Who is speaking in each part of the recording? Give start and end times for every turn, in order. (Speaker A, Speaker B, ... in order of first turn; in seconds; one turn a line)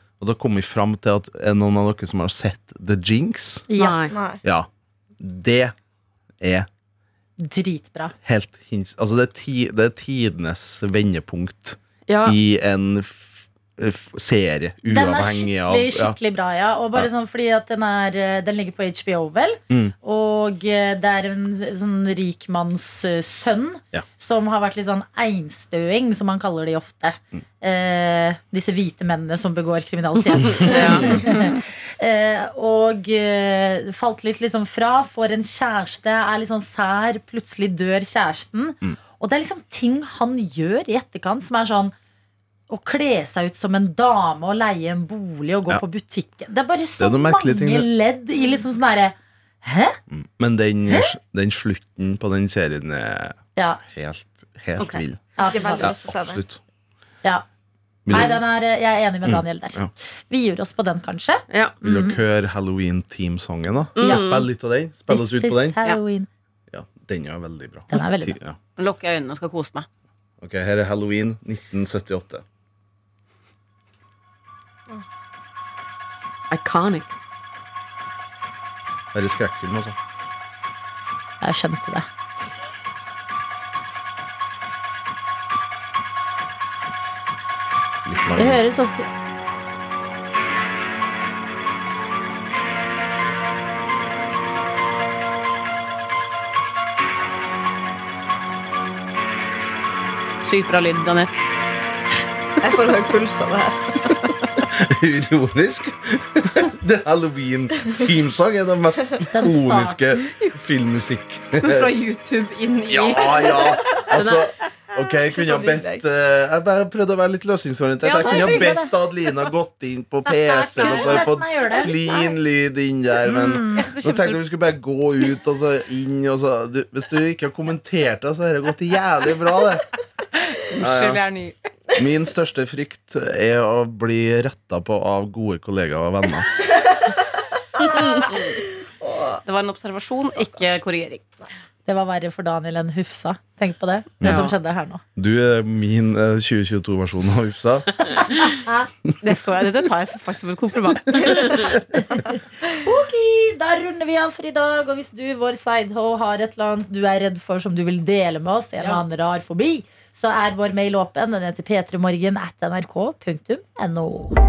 Speaker A: 0.2-3.7
Speaker B: 3.7-4.0
Speaker C: 3.8-4.1
Speaker D: 4.1-4.4
Speaker A: 4.4-4.7
Speaker A: 5.2-5.7
Speaker A: 6.4-6.7
Speaker B: 7.4-8.1
Speaker A: 8.2-16.1
Speaker C: 12.1-12.4
Speaker B: 14.9-41.9
Speaker C: 30.6-31.2
Speaker D: 30.7-31.1
Speaker B: 42.7-50.0
Speaker A: 47.0-47.9
Speaker A: 50.1-53.4
Speaker B: 53.5-53.8
Speaker A: 53.9-55.3
Speaker E: 54.8-55.0
Speaker B: 55.4-55.9
Speaker D: 55.4-56.4
Speaker A: 55.8-56.6
Speaker A: 58.0-58.4
Speaker B: 58.1-62.1
Speaker A: 59.2-59.9
Speaker C: 61.5-61.7
Speaker A: 61.8-65.8
Speaker C: 64.0-64.5
Speaker B: 64.0-64.3
Speaker B: 65.1-66.3
Speaker A: 66.7-68.6
Speaker B: 67.9-68.4
Speaker E: 68.8-69.9
Speaker A: 70.4-72.4
Speaker C: 76.5-77.1
Speaker A: 79.1-80.0
Speaker B: 81.4-82.0
Speaker A: 88.0-88.6
Speaker B: 88.3-89.1
Speaker E: 100.4-101.3
Speaker D: 102.6-104.0
Speaker A: 104.7-111.9
Speaker B: 109.2-110.3
Speaker E: 111.6-114.1
Speaker A: 112.9-129.9
Speaker C: 114.1-114.4
Speaker D: 115.1-116.0
Speaker E: 118.0-118.9
Speaker B: 120.6-121.9
Speaker B: 123.3-123.9
Speaker E: 123.7-124.4
Speaker E: 130.4-131.5
Speaker A: 130.8-131.2
Speaker A: 131.9-136.5
Speaker D: 136.7-137.1
Speaker D: 137.8-139.4
Speaker E: 139.4-141.4
Speaker B: 141.8-145.0
Speaker A: 144.2-144.5
Speaker C: 144.2-144.5
Speaker A: 145.2-148.3
Speaker B: 148.4-148.9
Speaker E: 149.2-151.8
Speaker B: 152.0-164.4